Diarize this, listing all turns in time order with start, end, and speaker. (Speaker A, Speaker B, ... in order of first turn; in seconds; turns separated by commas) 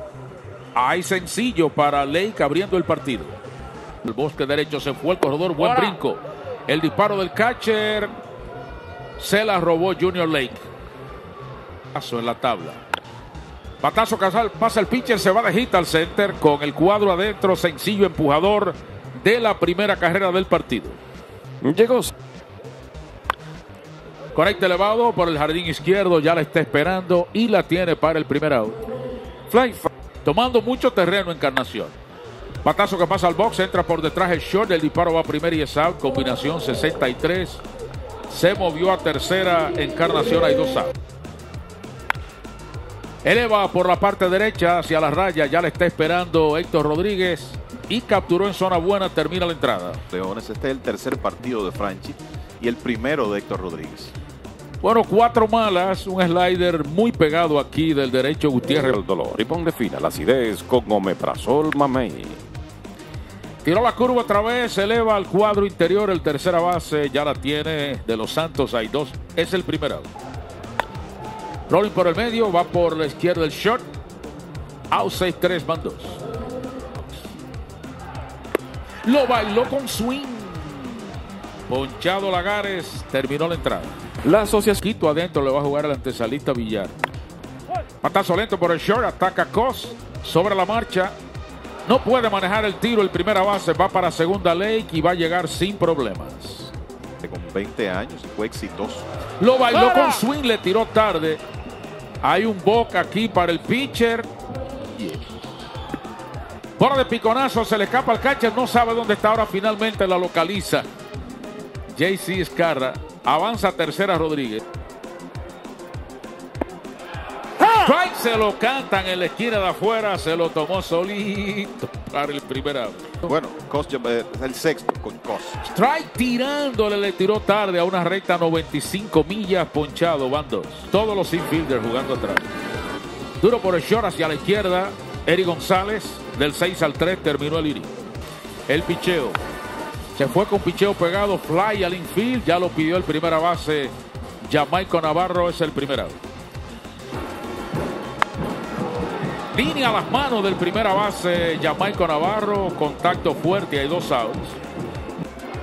Speaker A: 0.7-3.4, Speaker A: 4.0-8.1, Speaker A: 9.2-10.6, Speaker A: 11.9-12.8, Speaker A: 13.8-21.0, Speaker B: 21.6-22.1, Speaker A: 24.3-28.8, Speaker B: 29.5-29.9, Speaker A: 30.2-31.9, Speaker A: 32.6-37.6, Speaker A: 38.3-40.9, Speaker A: 43.2-50.0, Speaker C: 50.1-54.1, Speaker A: 54.8-59.0, Speaker B: 59.0-62.4, Speaker A: 63.6-70.1, Speaker A: 71.7-73.8, Speaker A: 74.9-76.2, Speaker A: 79.0-81.1, Speaker A: 81.7-84.0, Speaker B: 84.2-84.8, Speaker A: 84.8-86.9, Speaker A: 88.0-91.1, Speaker A: 91.8-96.7, Speaker C: 97.2-99.0, Speaker A: 99.4-101.4, Speaker A: 102.2-104.3, Speaker A: 104.9-105.3, Speaker A: 106.8-110.9, Speaker A: 111.9-114.6, Speaker A: 117.6-123.3, Speaker C: 123.2-125.6, Speaker A: 125.6-132.5, Speaker A: 133.4-137.9, Speaker A: 138.7-139.4, Speaker A: 140.1-143.9, Speaker A: 144.4-146.2, Speaker A: 149.5-154.6